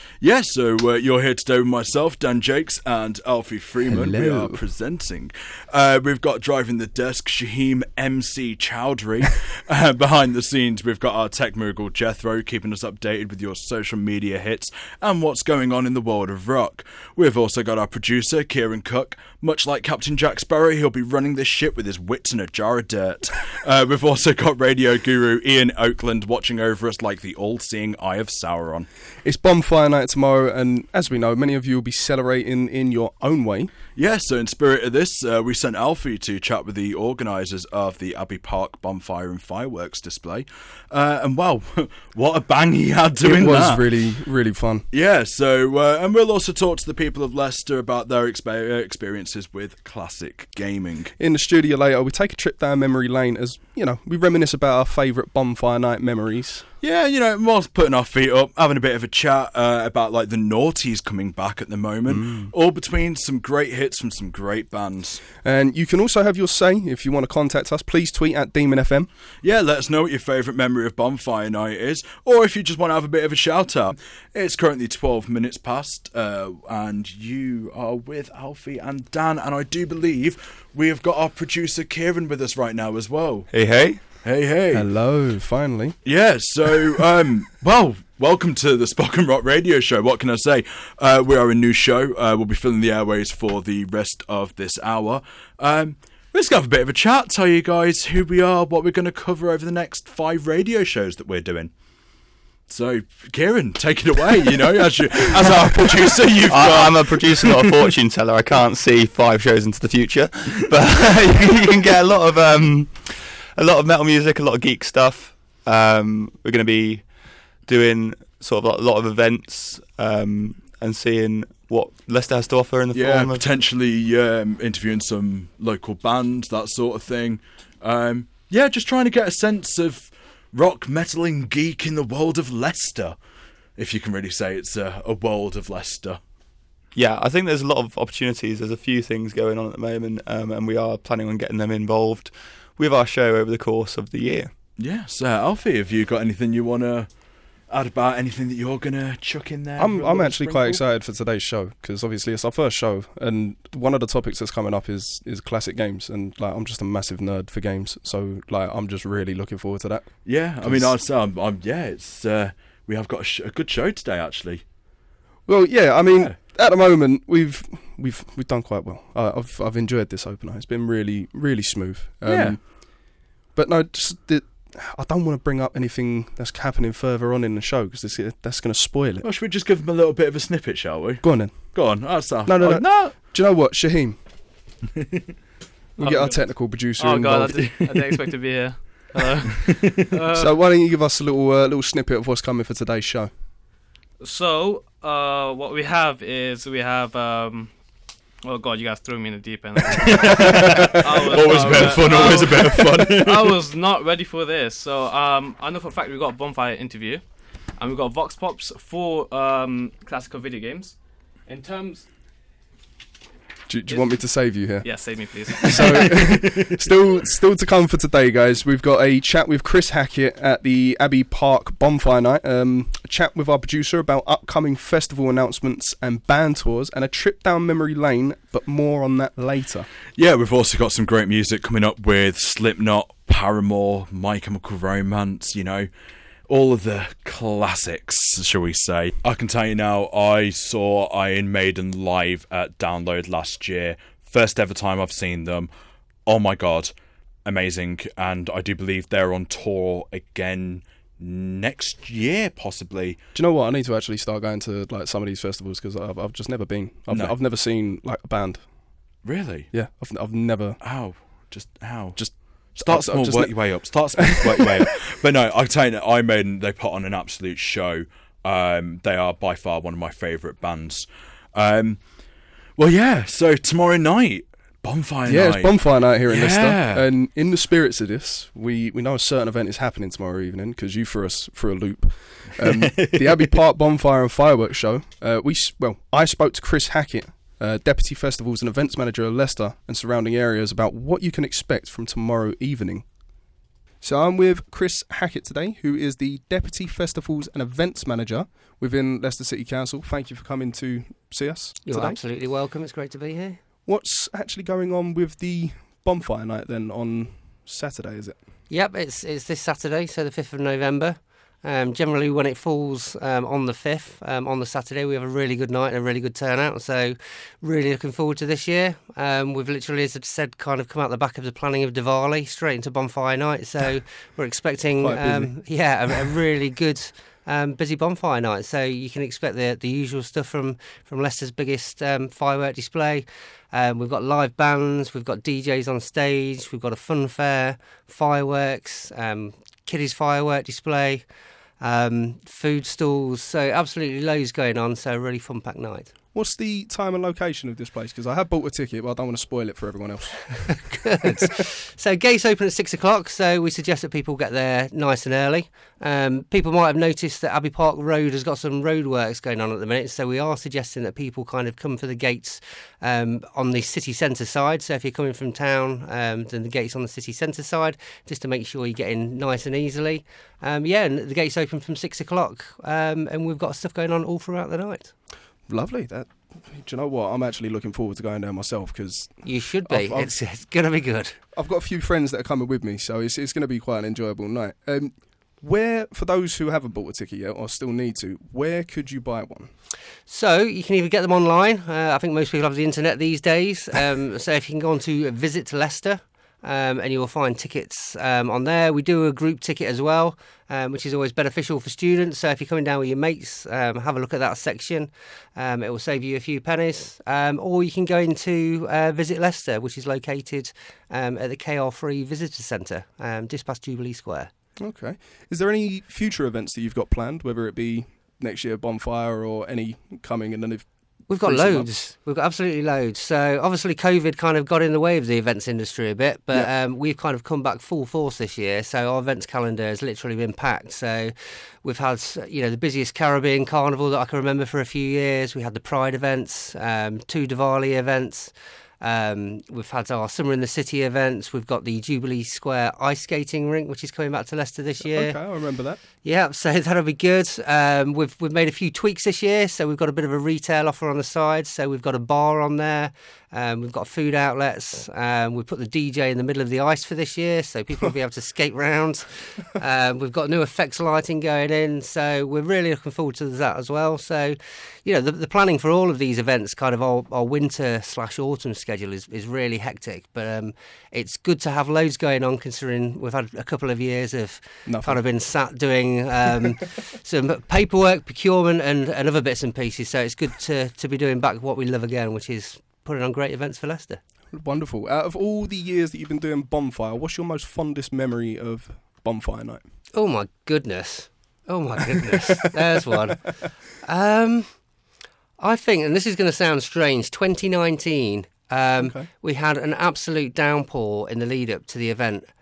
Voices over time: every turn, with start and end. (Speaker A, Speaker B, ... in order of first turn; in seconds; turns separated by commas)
Speaker A: 0.2-28.9, Speaker B: 3.9-4.6, Speaker B: 29.2-33.7, Speaker A: 33.9-43.8, Speaker B: 43.2-44.9, Speaker A: 44.9-51.1, Speaker B: 51.2-56.6, Speaker A: 56.8-65.2, Speaker C: 62.1-62.5, Speaker B: 65.4-69.1, Speaker A: 69.4-83.5, Speaker C: 83.5-84.0, Speaker A: 84.2-84.9, Speaker B: 84.7-86.0, Speaker A: 86.0-101.7, Speaker A: 102.7-107.9, Speaker C: 106.4-117.0, Speaker C: 117.7-123.5, Speaker A: 122.9-133.2, Speaker A: 133.8-136.2, Speaker C: 136.9-144.5, Speaker A: 144.8-147.1, Speaker A: 147.7-150.8, Speaker B: 149.8-160.9, Speaker A: 160.2-164.6, Speaker B: 165.5-172.6, Speaker A: 172.2-172.6, Speaker B: 173.5-179.2, Speaker A: 179.2-183.2, Speaker B: 181.2-181.8, Speaker B: 182.4-184.2, Speaker B: 186.0-188.1, Speaker D: 186.0-190.5, Speaker B: 190.3-193.3, Speaker D: 194.2-197.7, Speaker D: 198.4-207.2, Speaker A: 199.9-203.6, Speaker D: 207.8-210.9, Speaker D: 211.5-212.0, Speaker B: 213.7-214.9, Speaker D: 213.9-214.2, Speaker D: 214.8-216.2, Speaker B: 215.5-229.9, Speaker A: 230.2-235.9, Speaker A: 236.5-245.7, Speaker A: 246.2-246.9, Speaker A: 247.4-253.2, Speaker B: 253.3-258.6, Speaker A: 259.2-259.7, Speaker B: 259.7-260.8, Speaker A: 260.8-262.2, Speaker B: 262.2-263.6, Speaker A: 262.8-272.0, Speaker B: 264.2-264.7, Speaker A: 272.8-277.1, Speaker B: 275.3-293.0, Speaker A: 282.6-283.5, Speaker B: 294.0-302.2, Speaker E: 301.9-303.6, Speaker B: 303.9-308.4, Speaker E: 308.7-341.2, Speaker B: 325.0-325.5, Speaker E: 341.8-346.1, Speaker B: 346.3-351.5, Speaker E: 351.0-375.1, Speaker B: 375.7-379.3, Speaker E: 379.4-381.4, Speaker B: 379.9-380.3, Speaker B: 381.6-389.7, Speaker E: 390.3-414.5, Speaker B: 414.8-420.9, Speaker E: 421.3-445.4, Speaker B: 421.4-421.9, Speaker B: 445.0-446.0, Speaker E: 446.2-484.2, Speaker B: 474.9-475.2, Speaker B: 484.5-489.8, Speaker E: 490.1-494.7, Speaker E: 495.6-502.5, Speaker B: 499.0-499.3